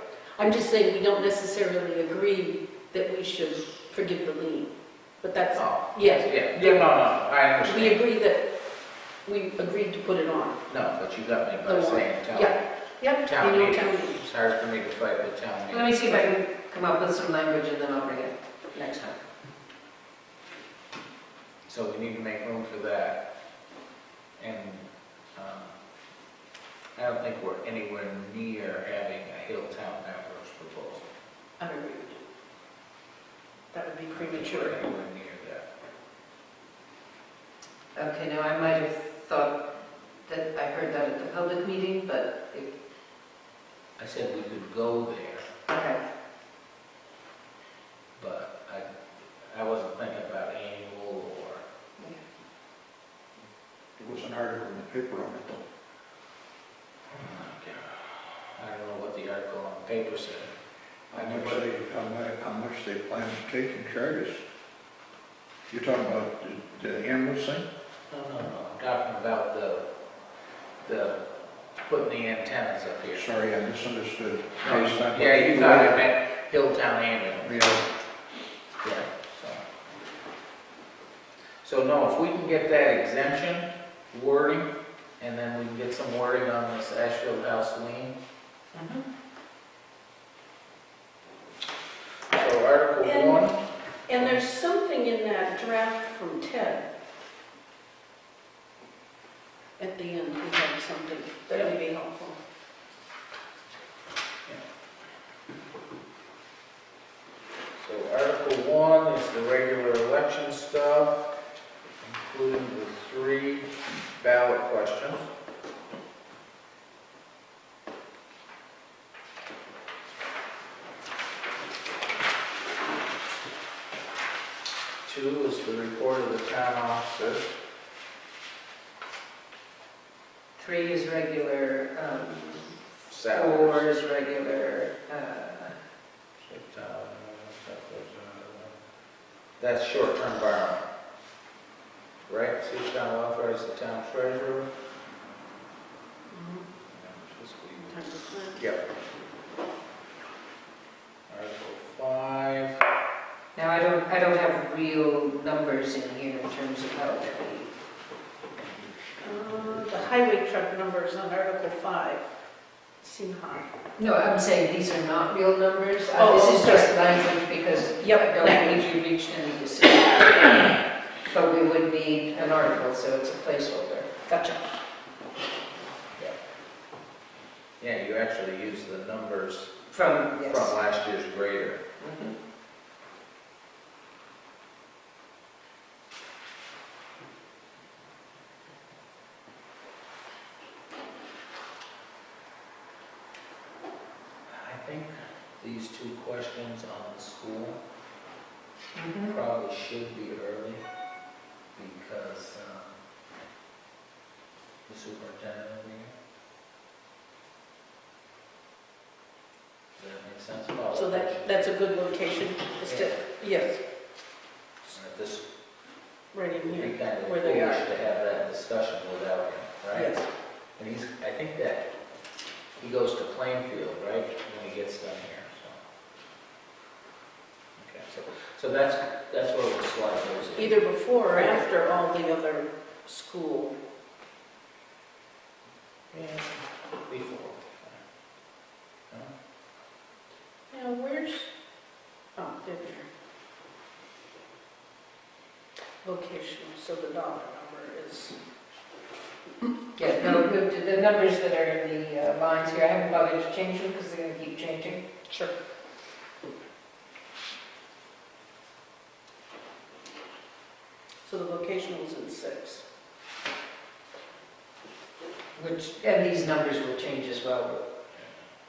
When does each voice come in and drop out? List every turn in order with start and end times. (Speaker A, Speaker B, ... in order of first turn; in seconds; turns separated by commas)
Speaker A: 0.4-6.8, Speaker B: 5.6-8.0, Speaker A: 7.6-8.4, Speaker A: 9.2-10.6, Speaker B: 10.7-12.6, Speaker A: 11.6-14.2, Speaker B: 13.3-16.0, Speaker C: 15.7-19.2, Speaker B: 21.7-23.2, Speaker B: 24.4-25.7, Speaker B: 27.0-31.1, Speaker A: 31.6-32.2, Speaker A: 33.7-34.8, Speaker B: 34.1-35.7, Speaker C: 37.9-39.6, Speaker C: 40.2-42.7, Speaker B: 44.0-45.5, Speaker C: 45.7-46.0, Speaker B: 48.2-48.9, Speaker B: 49.4-51.6, Speaker D: 54.0-55.6, Speaker B: 57.1-60.5, Speaker B: 61.1-61.7, Speaker D: 61.1-64.4, Speaker D: 65.7-67.7, Speaker B: 68.1-69.8, Speaker B: 70.8-71.2, Speaker B: 71.8-73.3, Speaker D: 73.2-76.0, Speaker B: 74.6-77.6, Speaker D: 77.4-77.8, Speaker B: 78.8-79.6, Speaker B: 81.6-88.2, Speaker C: 88.7-89.0, Speaker B: 92.3-93.6, Speaker A: 93.0-93.5, Speaker A: 94.1-96.9, Speaker A: 99.8-102.4, Speaker B: 107.8-111.2, Speaker B: 112.0-115.3, Speaker B: 125.1-127.5, Speaker C: 130.6-135.8, Speaker B: 133.1-133.8, Speaker B: 136.4-138.7, Speaker B: 139.6-140.9, Speaker B: 142.3-144.7, Speaker A: 146.3-146.7, Speaker B: 146.9-148.0, Speaker A: 147.9-148.6, Speaker B: 151.3-152.8, Speaker C: 153.6-157.7, Speaker A: 159.2-162.3, Speaker A: 163.0-163.7, Speaker C: 164.0-174.1, Speaker A: 166.1-166.9, Speaker A: 168.0-168.8, Speaker A: 174.3-174.6, Speaker B: 177.8-179.8, Speaker C: 179.9-180.7, Speaker B: 180.3-181.8, Speaker C: 182.0-182.3, Speaker B: 194.5-197.8, Speaker C: 198.9-199.4, Speaker B: 199.3-200.8, Speaker B: 201.8-203.0, Speaker B: 204.9-206.1, Speaker B: 210.0-211.5, Speaker A: 210.9-213.8, Speaker B: 212.9-213.2, Speaker B: 214.9-215.5, Speaker A: 216.3-217.8, Speaker B: 216.7-220.2, Speaker A: 219.9-220.3, Speaker B: 220.8-221.9, Speaker B: 222.8-225.8, Speaker B: 227.8-230.8, Speaker A: 230.6-233.8, Speaker B: 236.1-238.0, Speaker A: 240.7-241.5, Speaker A: 242.4-243.1, Speaker A: 246.0-248.4, Speaker C: 250.0-255.0, Speaker A: 255.3-255.6, Speaker A: 261.2-262.8, Speaker C: 265.6-267.8